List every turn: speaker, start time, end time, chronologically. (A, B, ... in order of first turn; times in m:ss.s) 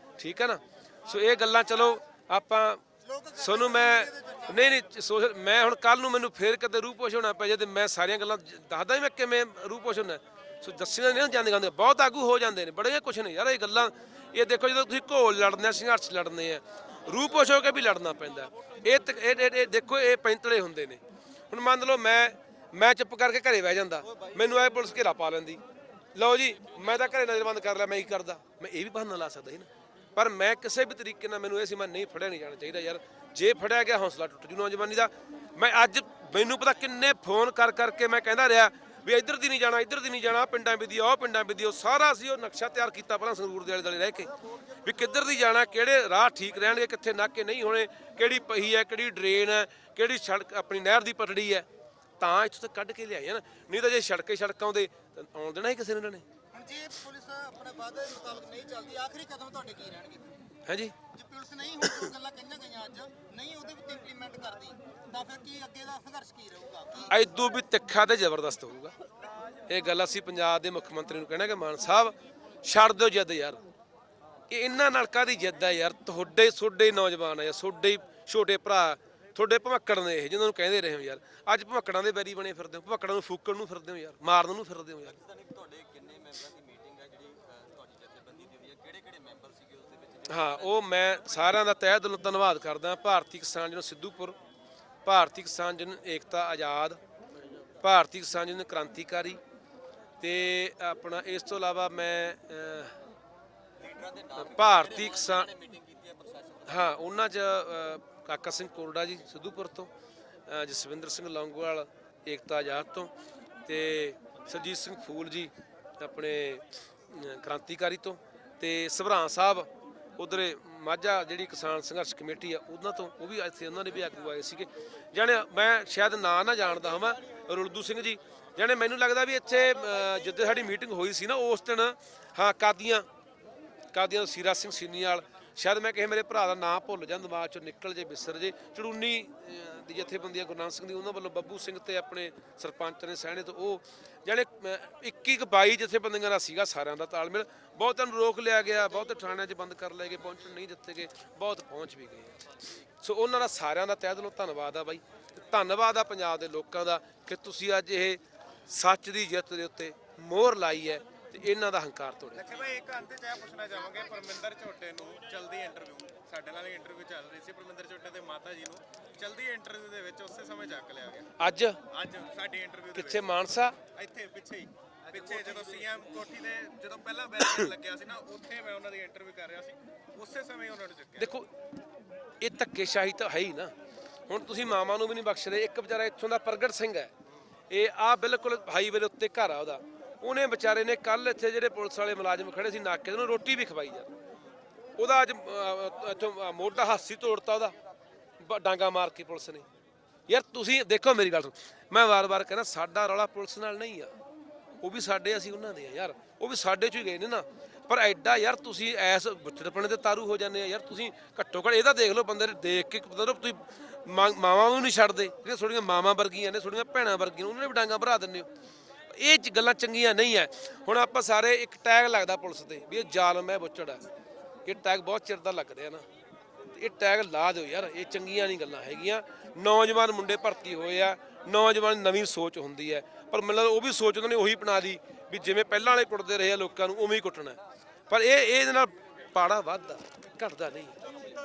0:00.2-0:02.8 A
0:03.0-0:04.8 B
0:03.4-0:25.6 A
0:26.2-0:51.7 A
0:52.2-0:56.2 A
0:56.5-1:00.3 B
1:00.7-1:01.0 A
1:01.1-1:07.2 B
1:07.1-1:08.9 A
1:09.7-1:13.6 A
1:14.5-1:25.2 A
1:25.1-1:30.8 C
1:30.3-1:34.4 A
1:35.0-1:37.0 A
1:37.8-1:39.4 A
1:40.2-1:43.0 A
1:43.8-1:46.9 C
1:44.4-1:45.5 A
1:46.7-1:49.9 A
1:50.5-1:53.1 A
1:53.7-2:13.1 A
2:13.9-2:32.4 A
2:33.0-2:42.6 A
2:42.3-2:51.3 D
2:51.4-2:51.8 A
2:51.9-2:53.3 D
2:52.9-2:53.8 A
2:53.9-3:01.3 D
3:01.2-3:01.5 A
3:02.4-3:03.7 A
3:04.3-3:07.1 A
3:07.7-3:14.1 A
3:15.0-3:17.8 A
3:18.4-3:19.7 A
3:20.3-3:24.1 A
3:24.8-3:38.5 A
3:39.1-3:44.0 A
3:44.6-3:46.1 A
3:46.7-3:57.6 A
3:58.1-4:01.0 A